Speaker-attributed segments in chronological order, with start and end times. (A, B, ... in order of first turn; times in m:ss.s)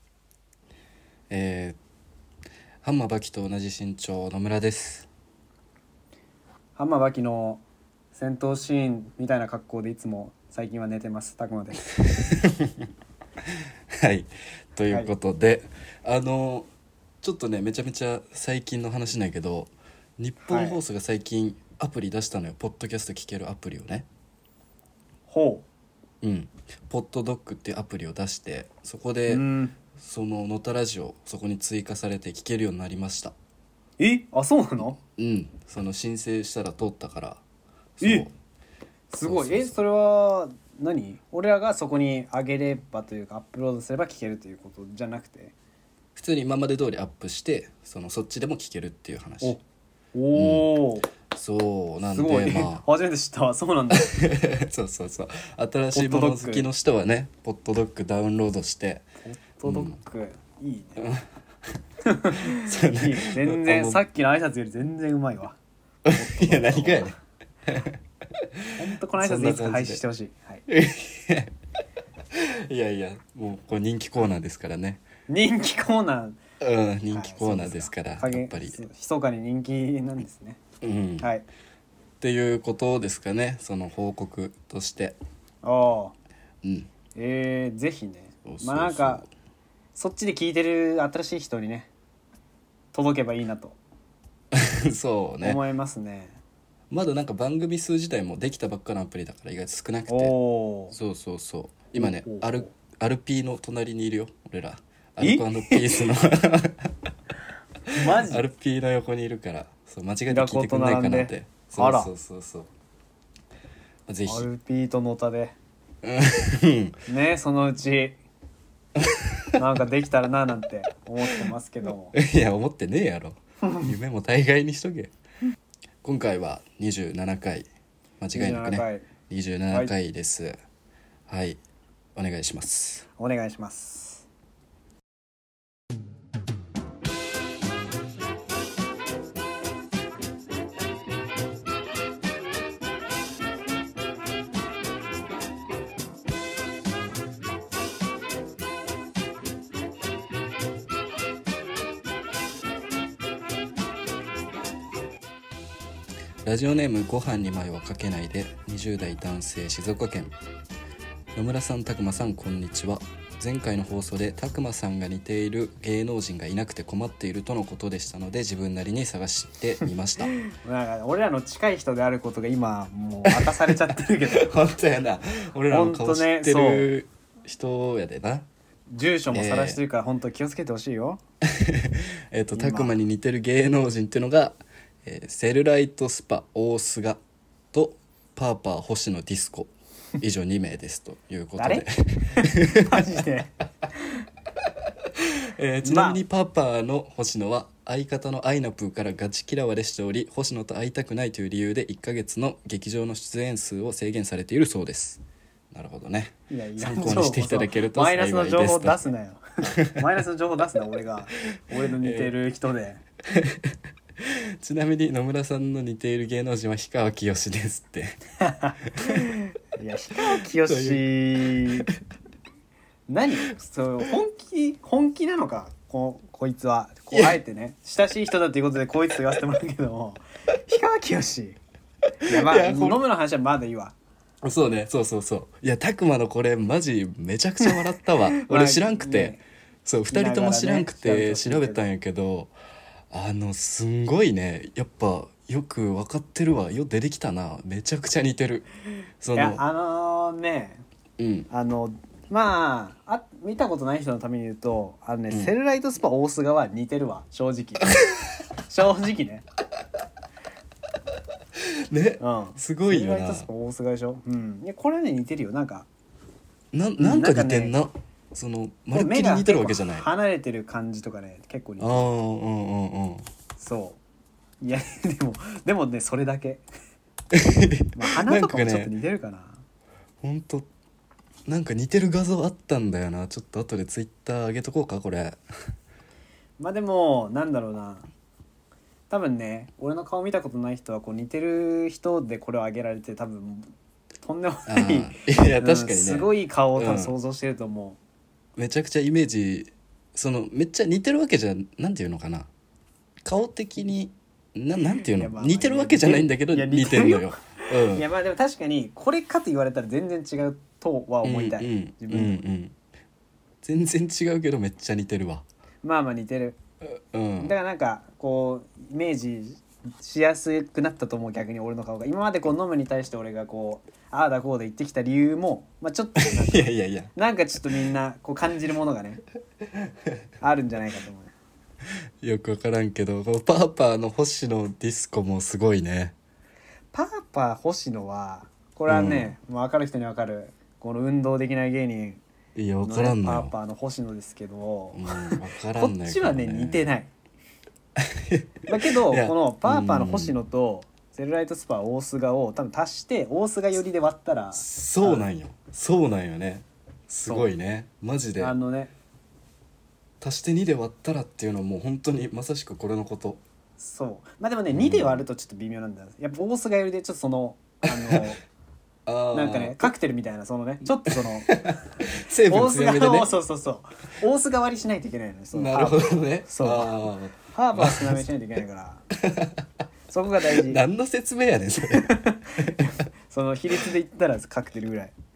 0:01.3-0:01.8 A
0:02.8-0:05.1 A
0:06.8-0:11.9 B
0:12.0-0:12.9 A
0:13.4-0:16.7 A
0:17.2-0:24.0 A
0:20.4-0:20.8 B
0:25.3-0:25.6 B
0:26.2-0:29.4 A
0:29.3-0:29.8 B
0:29.9-0:33.3 A
0:34.0-0:35.0 B
0:35.2-0:37.4 A
0:38.0-0:38.3 A
0:39.1-0:45.5 B
0:39.2-0:39.7 A
0:46.2-0:49.6 A
0:50.1-0:51.1 B
0:50.3-0:50.7 A
0:51.3-0:52.8 A
0:52.1-0:54.1 B
0:53.9-0:59.0 A
0:55.9-0:56.7 B
0:59.2-1:01.0 B
0:59.6-0:59.9 A
1:01.0-1:01.2 A
1:02.0-1:05.6 B
1:02.4-1:04.0 A
1:06.0-1:07.2 A
1:06.1-1:07.1 B
1:07.7-1:10.0 A
1:08.8-1:10.6 B
1:10.7-1:11.5 A
1:12.3-1:15.0 A
1:15.3-1:16.4 B
1:16.6-1:18.8 A
1:17.1-1:20.6 B
1:20.8-1:21.3 A
1:21.2-1:21.4 B
1:22.2-1:25.2 A
1:25.6-1:26.1 B
1:26.6-1:26.9 A
1:27.1-1:29.2 B
1:28.4-1:29.3 A
1:29.9-1:31.9 B
1:32.9-1:33.8 B
1:34.5-1:35.6 A
1:35.4-1:36.4 B
1:36.9-1:40.3 A
1:40.1-1:41.0 B
1:40.9-1:47.1 A
1:42.0-1:42.7 B
1:45.2-1:46.1 B
1:47.9-1:52.7 A
1:47.9-1:48.4 B
1:50.3-1:52.1 B
1:54.1-1:54.5 A
1:54.2-1:55.5 B
1:56.0-1:57.0 A
1:57.1-1:58.2 B
1:59.0-1:59.5 A
1:59.6-2:02.2 B
2:02.1-2:05.1 A
2:06.0-2:07.7 A
2:08.2-2:10.5 A
2:08.3-2:09.1 B
2:11.3-2:11.6 A
2:12.2-2:13.0 A
2:13.2-2:14.2 B
2:36.4-2:40.3 A
2:41.3-2:50.3 A
2:50.2-2:54.5 B
2:53.3-2:58.4 A
2:55.7-2:56.9 B
2:58.9-3:01.2 B
2:59.3-2:59.8 A
3:01.4-3:07.2 A
3:02.5-3:02.9 B
3:07.7-3:13.0 A
3:11.6-3:14.0 B
3:15.1-3:29.0 A
3:15.8-3:16.2 B
3:26.5-3:33.0 B
3:29.7-3:30.0 A
3:32.0-3:32.3 A
3:33.3-3:38.2 A
3:38.4-3:41.9 B
3:39.0-3:39.2 A
3:40.7-3:41.0 A
3:41.5-3:42.0 A
3:43.1-3:51.6 B
3:47.1-3:47.4 A
3:52.2-3:53.9 B
3:52.2-3:53.0 A
3:54.4-4:02.5 A
3:57.6-3:59.4 B
4:00.1-4:01.9 B
4:03.1-4:08.7 A
4:09.2-4:09.6 A
4:09.3-4:10.8 B
4:11.2-4:11.5 A
4:11.5-4:19.4 B
4:17.9-4:18.3 A
4:21.6-4:23.4 A
4:22.2-4:25.9 B
4:26.7-4:30.1 A
4:27.0-4:27.7 B
4:28.9-4:32.1 B
4:31.8-4:33.2 A
4:33.6-4:34.0 B
4:34.6-4:36.6 B
4:37.3-4:38.9 A
4:37.9-4:39.6 B
4:40.2-4:40.7 A
4:41.5-4:45.4 A
4:46.6-4:48.1 B
4:49.1-4:58.0 B
4:54.6-4:57.1 A
4:58.6-5:02.5 A
5:03.2-5:08.0 A
5:05.2-5:12.4 B
5:11.2-5:12.8 A
5:13.6-5:15.4 A
5:15.8-5:16.6 B
5:16.9-5:17.5 A
5:17.4-5:29.2 B
5:26.2-5:27.1 A
5:30.4-5:31.3 B
5:32.2-5:36.1 A
5:36.9-5:42.2 B
5:38.9-5:39.3 A
5:42.5-5:43.5 A
5:42.8-5:47.1 B
5:44.9-5:46.9 A
5:48.0-5:50.4 A
5:48.7-5:55.2 B
5:54.5-5:58.5 A
5:57.2-5:57.5 B
5:58.4-5:58.9 B
6:00.2-6:03.4 A
6:03.8-6:08.4 B
6:04.7-6:05.2 A
6:07.9-6:08.3 A
6:09.0-6:09.9 A
6:09.3-6:11.8 B
6:11.5-6:13.3 A
6:12.4-6:19.0 B
6:15.5-6:18.2 A
6:19.1-6:19.6 A
6:20.1-6:20.8 B
6:20.5-6:22.8 A
6:21.9-6:25.1 B